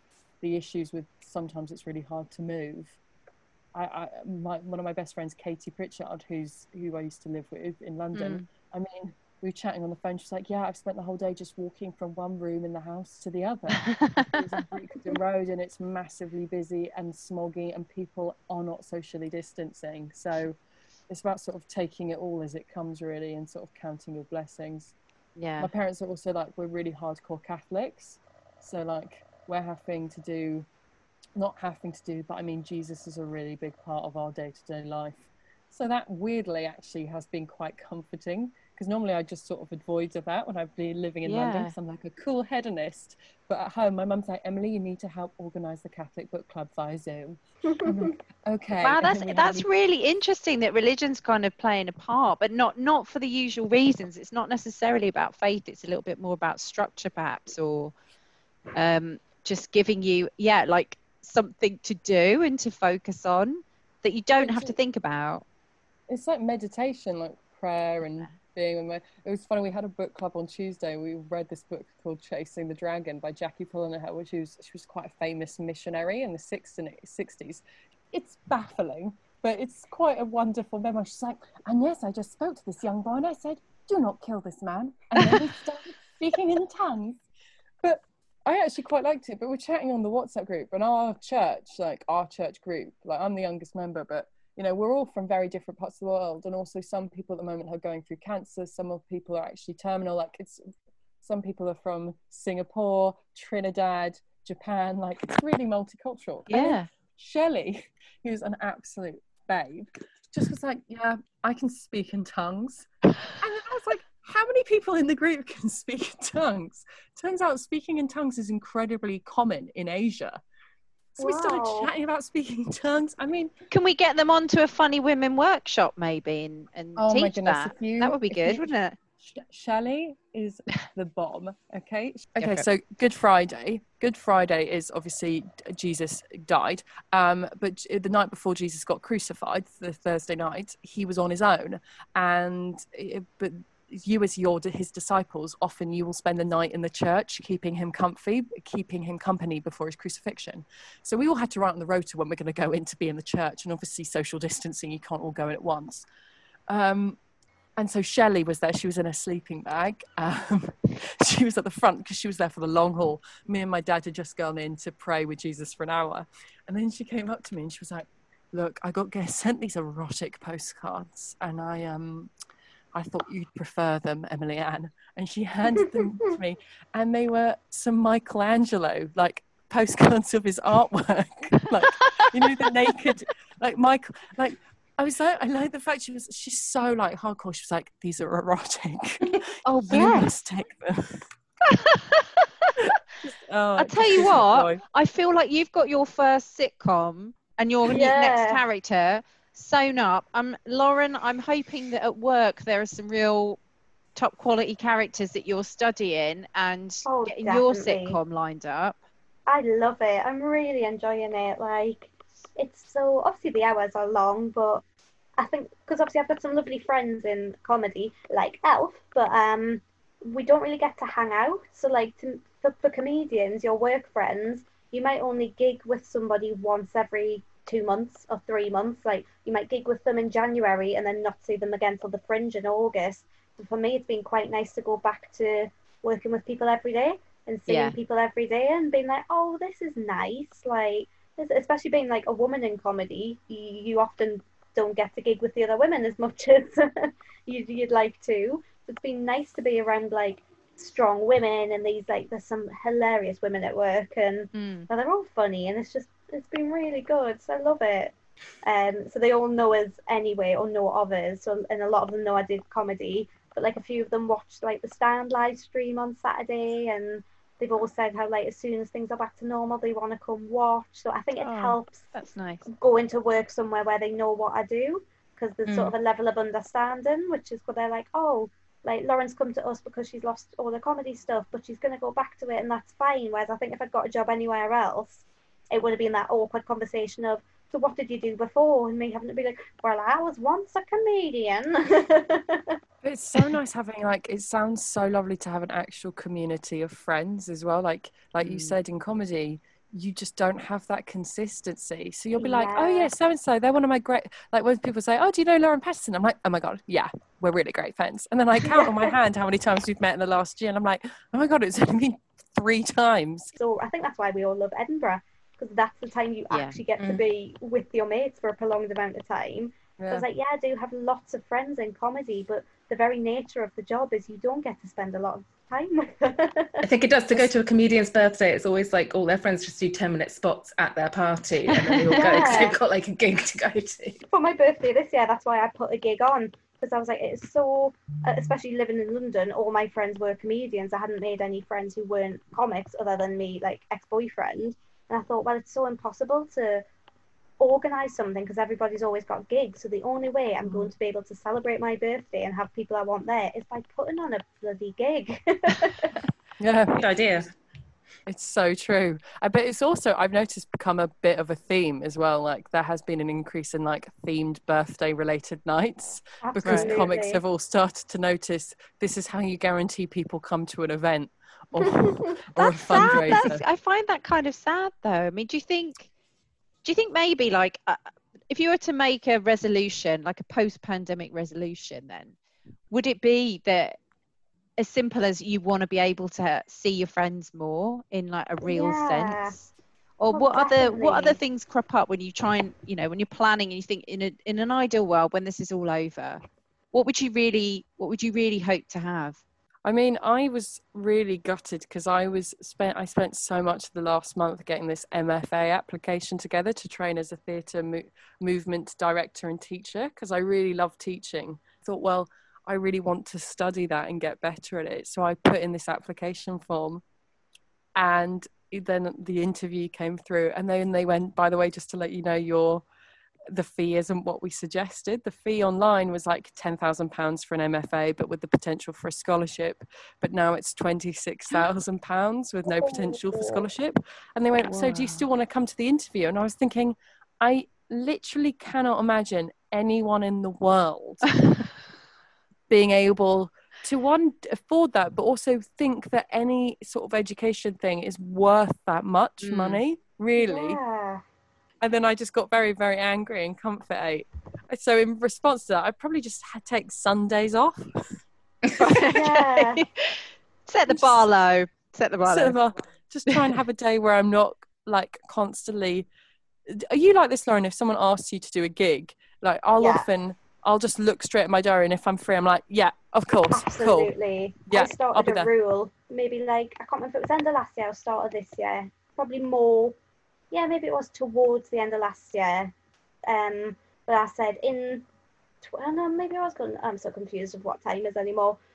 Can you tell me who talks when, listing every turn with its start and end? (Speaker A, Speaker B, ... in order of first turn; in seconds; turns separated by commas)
Speaker A: 0.4-3.0, Speaker A: 3.7-20.6, Speaker B: 8.1-8.4, Speaker B: 13.9-14.2, Speaker A: 21.1-24.9, Speaker B: 25.4-25.7, Speaker A: 25.6-30.6, Speaker A: 31.4-49.7, Speaker B: 41.2-41.7, Speaker B: 48.8-57.9, Speaker B: 58.7-65.4, Speaker A: 64.3-64.8, Speaker A: 66.1-87.2, Speaker A: 87.8-100.6, Speaker A: 101.2-120.4, Speaker B: 106.5-106.9, Speaker A: 121.2-123.5, Speaker C: 121.2-121.9, Speaker B: 123.7-128.9, Speaker A: 127.0-128.7, Speaker A: 129.2-156.0, Speaker B: 132.4-132.7, Speaker A: 156.7-157.2, Speaker A: 157.8-172.3, Speaker A: 172.9-191.2, Speaker B: 181.7-182.7, Speaker B: 189.6-190.3, Speaker B: 191.7-192.8, Speaker A: 193.1-194.8, Speaker B: 193.8-203.6, Speaker C: 197.8-198.6, Speaker B: 204.1-209.0, Speaker C: 207.0-208.2, Speaker C: 209.5-214.8, Speaker C: 215.4-272.0, Speaker B: 237.7-237.9, Speaker B: 254.5-254.9, Speaker B: 271.4-272.6, Speaker C: 272.7-292.8, Speaker D: 275.7-275.9, Speaker A: 293.0-313.5, Speaker B: 298.4-298.8, Speaker C: 302.4-303.1, Speaker C: 308.6-309.1, Speaker C: 313.6-326.9, Speaker B: 316.5-316.8, Speaker A: 320.0-320.2, Speaker D: 326.8-334.2, Speaker B: 331.8-332.6, Speaker C: 332.1-332.8, Speaker C: 334.3-346.8, Speaker C: 347.6-356.1, Speaker A: 356.6-357.1, Speaker D: 356.9-357.5, Speaker A: 358.3-373.6, Speaker C: 366.4-367.4, Speaker B: 366.6-367.0, Speaker C: 371.9-372.3, Speaker B: 372.6-376.1, Speaker B: 376.8-382.3, Speaker B: 382.9-384.0, Speaker B: 384.8-399.4, Speaker C: 388.6-389.5, Speaker C: 390.3-391.4, Speaker A: 399.8-417.0, Speaker A: 417.9-422.8, Speaker A: 423.5-441.3, Speaker C: 432.7-433.6, Speaker B: 434.6-435.2, Speaker B: 441.3-441.7, Speaker A: 442.7-450.8, Speaker B: 449.4-449.8, Speaker C: 450.4-451.2, Speaker A: 451.8-457.9, Speaker B: 458.8-462.6, Speaker C: 459.1-459.8, Speaker A: 460.9-461.3, Speaker A: 462.2-466.1, Speaker A: 466.7-474.1, Speaker C: 469.8-470.1, Speaker C: 473.5-479.9, Speaker A: 474.7-475.5, Speaker C: 480.5-482.7, Speaker C: 483.3-485.0, Speaker C: 485.6-488.6